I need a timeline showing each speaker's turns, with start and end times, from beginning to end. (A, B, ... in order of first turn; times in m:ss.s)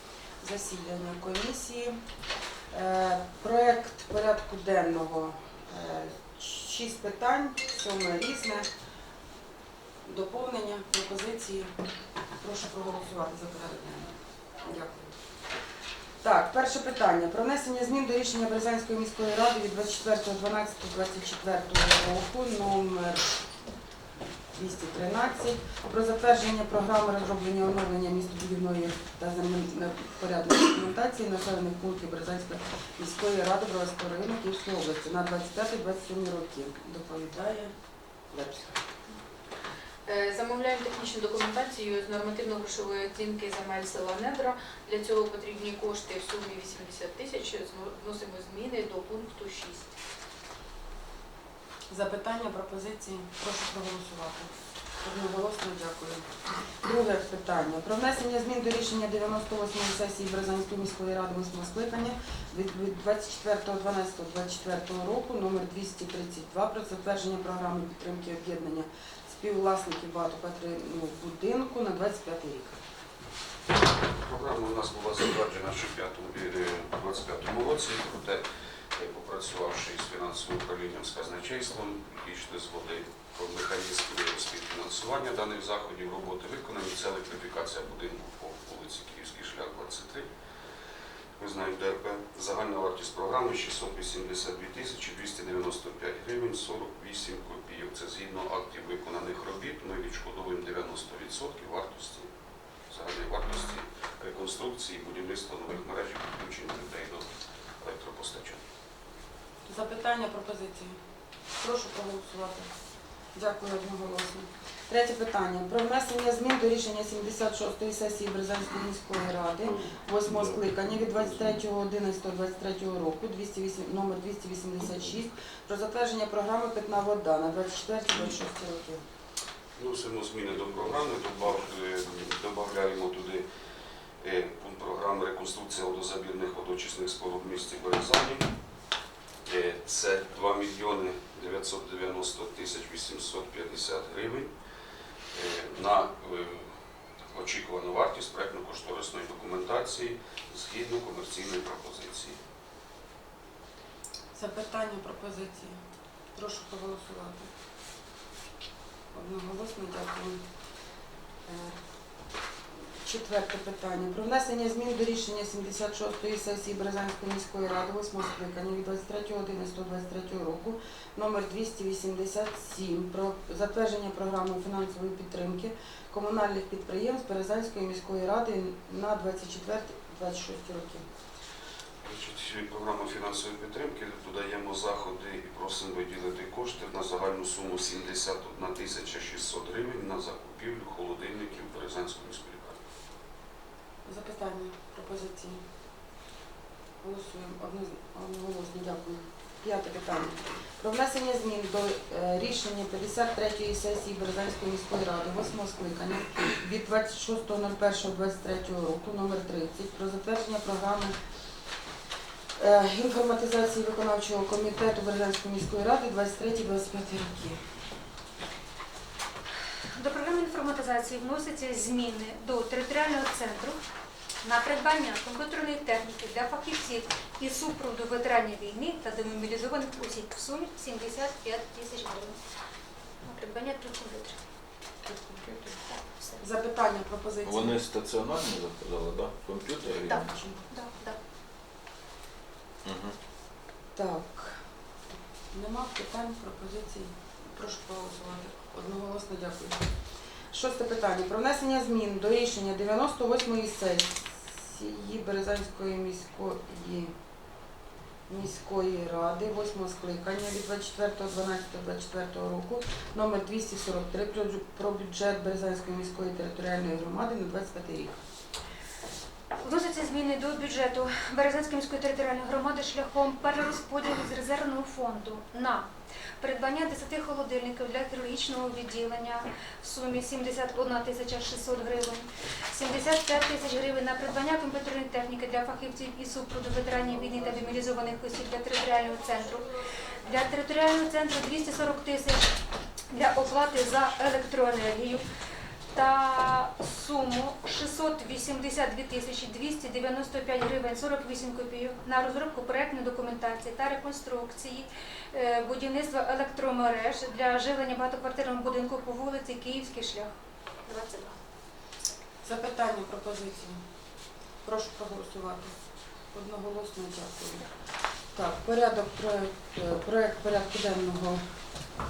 0:00.4-0:02.0 A
0:02.7-0:08.7 A
0:10.0-0:11.7 A
0:12.4-0:15.1 A
0:16.2-0:23.3 A
0:24.6-0:37.7 A
0:38.3-0:38.8 A
0:40.1-0:49.9 B
0:51.9-0:56.2 A
0:56.8-1:12.8 A
1:14.2-1:18.4 C
1:19.0-1:30.3 C
1:31.4-1:42.3 C
1:42.9-1:47.3 C
1:47.8-1:48.6 C
1:49.7-1:51.0 A
1:51.6-1:52.7 A
1:53.4-2:09.0 A
2:09.8-2:13.4 C
2:14.2-2:18.5 C
2:19.5-2:24.5 C
2:25.3-2:26.6 C
2:27.3-2:32.4 C
2:34.3-2:35.8 A
2:36.4-2:37.5 A
2:39.1-2:40.4 A
2:41.5-2:41.8 A
2:43.0-3:01.1 A
3:02.0-3:12.8 C
3:14.0-3:15.6 A
3:17.0-3:31.1 A
3:32.6-3:37.6 A
3:40.0-3:43.8 D
3:44.4-3:52.4 D
3:53.2-3:54.4 D
3:55.0-3:55.8 A
3:55.9-3:56.4 D
3:56.4-3:57.7 A
3:57.4-4:00.4 E
4:00.0-4:01.2 D
4:02.8-4:03.2 E
4:04.0-4:04.6 A
4:05.5-4:09.8 A
4:10.5-4:17.1 A
4:18.3-4:28.2 A
4:29.6-4:35.9 D
4:36.4-4:49.7 D
4:50.2-4:52.5 D
4:53.1-4:55.2 D
4:55.9-5:10.3 D
5:10.9-5:11.4 D
5:12.4-5:13.8 A
5:14.6-5:15.8 A
5:16.3-5:17.7 A
5:18.3-5:21.4 A